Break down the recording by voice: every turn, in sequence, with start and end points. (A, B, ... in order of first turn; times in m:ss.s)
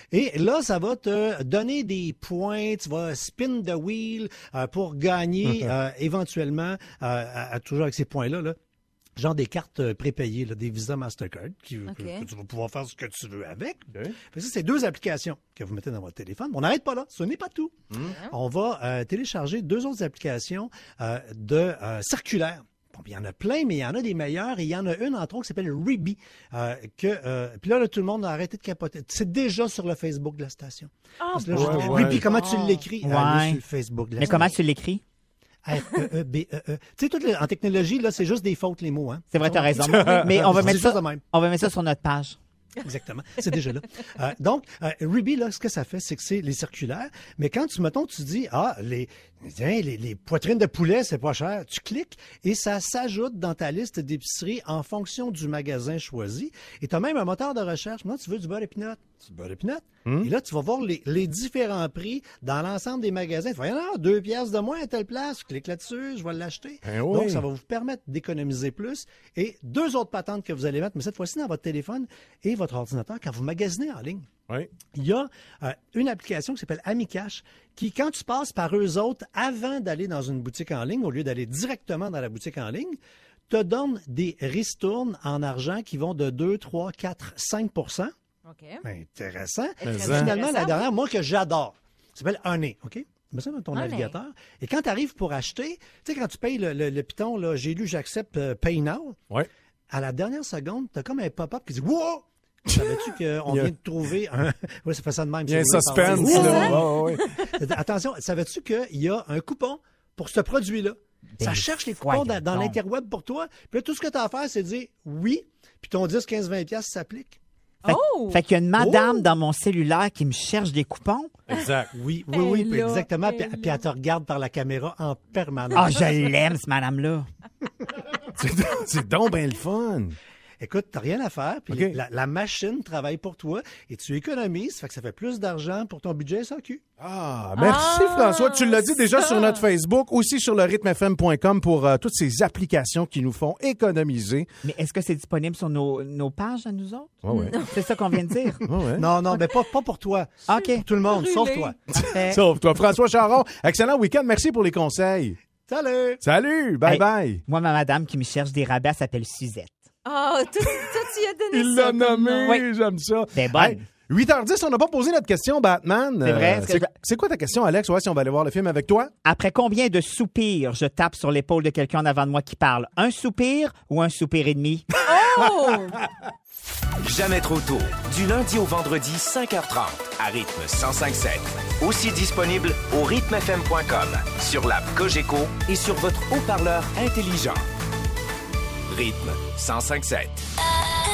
0:00.1-0:08.6 A
0:09.2-0:34.5 A
0:11.9-0:12.3 B
0:18.0-0:18.3 B
0:31.2-0:32.8 B
0:31.5-0:32.2 C
0:33.0-0:33.6 D
0:34.2-0:35.0 D
0:35.7-0:41.2 A
0:39.3-0:42.4 D
0:39.9-0:40.3 C
0:42.8-1:14.3 A
1:00.1-1:00.3 C
1:06.8-1:07.4 C
1:14.9-1:23.0 A
1:23.5-1:28.1 A
1:28.5-1:28.8 B
1:28.9-1:39.2 A
1:29.8-1:30.9 B
1:29.8-1:30.3 C
1:33.7-1:34.2 B
1:39.9-1:46.9 A
1:42.7-1:43.7 C
1:45.5-1:47.2 C
1:46.1-1:47.5 B
1:47.6-1:57.4 A
1:51.4-1:52.8 D
1:57.8-1:58.4 B
1:57.9-2:01.4 D
1:58.8-1:59.2 C
2:01.5-2:01.9 C
2:01.5-2:01.8 B
2:01.9-2:06.3 A
2:02.3-2:03.8 B
2:05.7-2:07.3 D
2:08.4-2:10.2 C
2:10.6-2:16.8 A
2:11.7-2:12.0 C
2:17.0-2:24.5 C
2:17.6-2:19.6 B
2:24.6-2:28.6 D
2:27.2-2:27.6 C
2:27.3-2:28.0 B
2:28.7-2:29.1 C
2:29.0-2:32.1 A
2:30.5-2:30.9 D
2:30.5-2:31.7 B
2:32.0-2:35.4 C
2:32.1-2:32.4 D
2:35.7-2:36.2 A
2:36.2-2:37.4 C
2:36.8-2:39.8 D
2:40.0-2:42.6 B
2:41.5-2:49.1 C
2:43.3-2:43.9 D
2:46.2-2:46.9 D
2:49.2-2:54.9 D
2:55.1-2:56.0 B
2:57.0-3:07.7 E
3:08.9-3:10.4 E